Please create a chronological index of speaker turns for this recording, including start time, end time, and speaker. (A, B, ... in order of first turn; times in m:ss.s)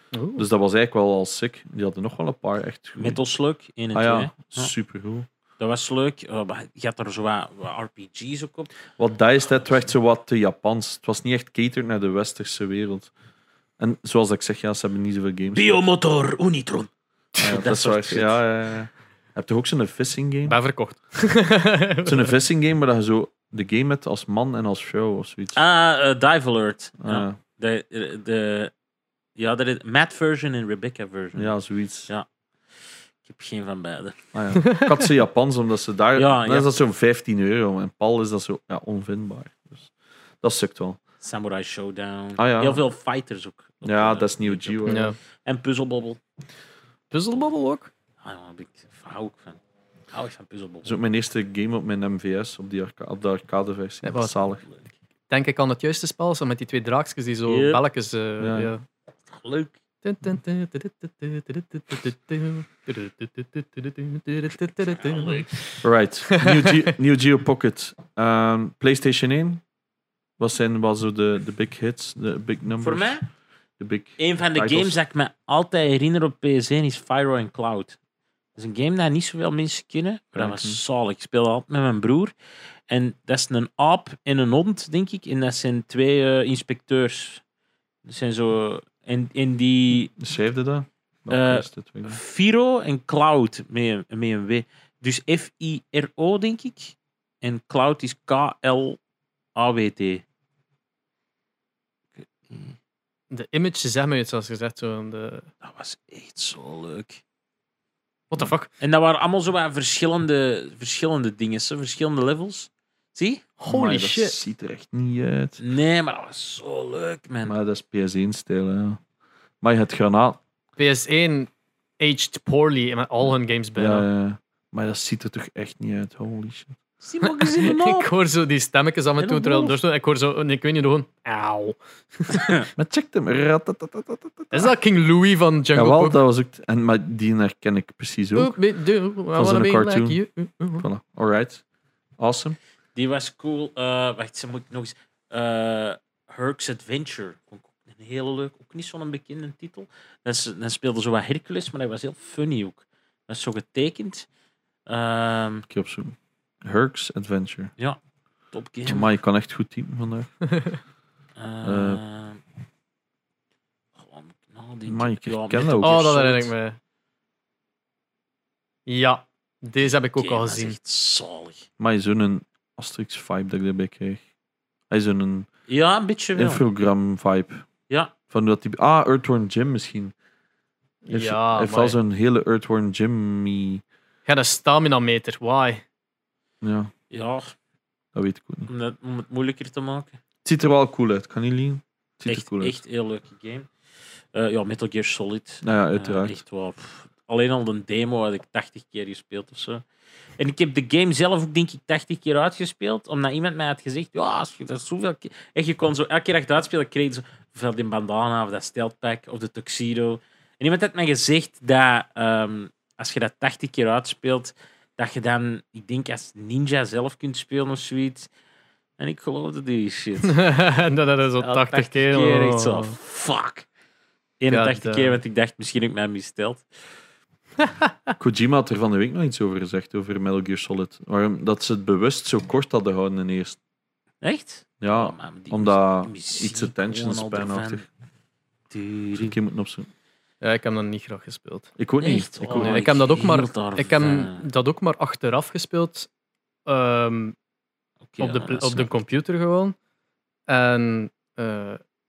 0:00.1-0:00.5 A
0:00.4-0:03.2 B
0:03.0-0:04.7 C
0:03.9-0:05.3 B
0:05.6-0:08.7 C
0:09.0-0:13.1 B
0:13.8-0:15.8 B
0:15.5-0:18.4 C
0:17.4-0:20.6 B
0:20.5-0:22.3 A
0:22.0-0:25.6 B
0:25.5-0:28.7 C
0:27.0-0:27.4 B
0:29.4-0:31.5 C
0:31.4-0:32.1 B
0:33.2-0:34.2 C
0:34.3-0:39.9 B
0:34.6-0:34.9 A
0:36.2-0:36.7 C
0:40.4-0:41.0 B
0:41.2-0:46.2 C
0:42.4-0:42.8 B
0:43.8-0:45.1 B
0:44.9-0:45.2 A
0:47.1-0:47.9 A
0:48.2-0:49.6 C
0:50.1-0:51.0 C
0:50.8-0:54.6 B
0:54.0-0:54.3 A
0:55.3-0:58.8 A
0:57.5-0:57.8 C
0:58.4-0:58.7 B
0:59.3-0:59.8 C
1:00.0-1:06.9 A
1:04.9-1:05.6 C
1:05.8-1:09.6 B
1:10.4-1:13.2 B
1:12.8-1:13.2 C
1:13.8-1:15.0 B
1:14.2-1:18.0 C
1:18.6-1:22.3 C
1:20.4-1:20.8 B
1:22.9-1:27.4 C
1:28.0-1:30.1 C
1:30.1-1:32.2 B
1:31.3-1:39.0 C
1:39.6-1:40.2 C
1:42.2-1:42.8 C
1:43.3-1:45.5 A
1:45.6-1:47.2 C
1:48.3-1:48.7 A
1:48.8-1:53.4 C
1:53.6-1:54.4 A
1:53.7-1:55.6 B
1:55.6-1:57.6 C
1:57.4-1:59.0 B
1:59.6-2:00.4 B
2:00.8-2:04.1 A
2:03.8-2:06.8 B
2:07.0-2:08.1 C
2:07.2-2:12.6 A
2:09.2-2:09.8 C
2:12.3-2:12.7 C
2:12.8-2:14.7 B
2:14.5-2:16.2 A
2:15.7-2:18.6 B
2:18.4-2:20.9 A
2:19.4-2:20.2 B
2:20.8-2:21.6 B
2:22.2-2:22.6 B
2:23.0-2:34.3 C
2:34.9-2:35.7 C
2:35.7-2:37.7 B
2:38.5-2:39.1 C
2:38.9-2:40.3 B
2:41.4-2:42.4 C
2:41.6-2:42.0 B
2:44.0-2:46.5 C
2:44.9-2:46.2 B
2:45.8-2:46.8 A
2:48.9-2:50.8 A
2:50.2-2:51.7 C
2:51.8-2:54.2 B
2:54.9-2:55.5 B
2:55.7-2:56.6 C
2:56.4-2:57.6 B
2:58.3-3:00.1 B
3:01.0-3:02.0 A
3:01.1-3:03.8 B
3:04.3-3:05.8 A
3:06.6-3:06.9 B
3:07.1-3:07.5 C
3:08.2-3:08.7 B
3:08.7-3:10.2 C
3:10.4-3:12.8 B
3:12.3-3:13.7 C
3:14.3-3:19.8 C
3:15.6-3:16.4 B
3:20.4-3:38.3 C
3:39.0-3:40.5 C
3:40.3-3:43.0 A
3:41.4-3:43.7 C
3:44.4-3:46.6 C
3:44.5-3:45.2 A
3:48.2-3:53.6 B
3:54.2-3:57.8 C
3:54.8-3:57.8 B
3:58.7-3:59.4 C
3:59.2-3:59.9 B
4:00.4-4:01.7 A
4:01.8-4:02.8 B
4:02.0-4:04.4 C
4:02.5-4:06.1 A
4:06.7-4:07.4 A
4:08.1-4:08.9 C
4:08.2-4:09.8 A
4:10.5-4:11.8 A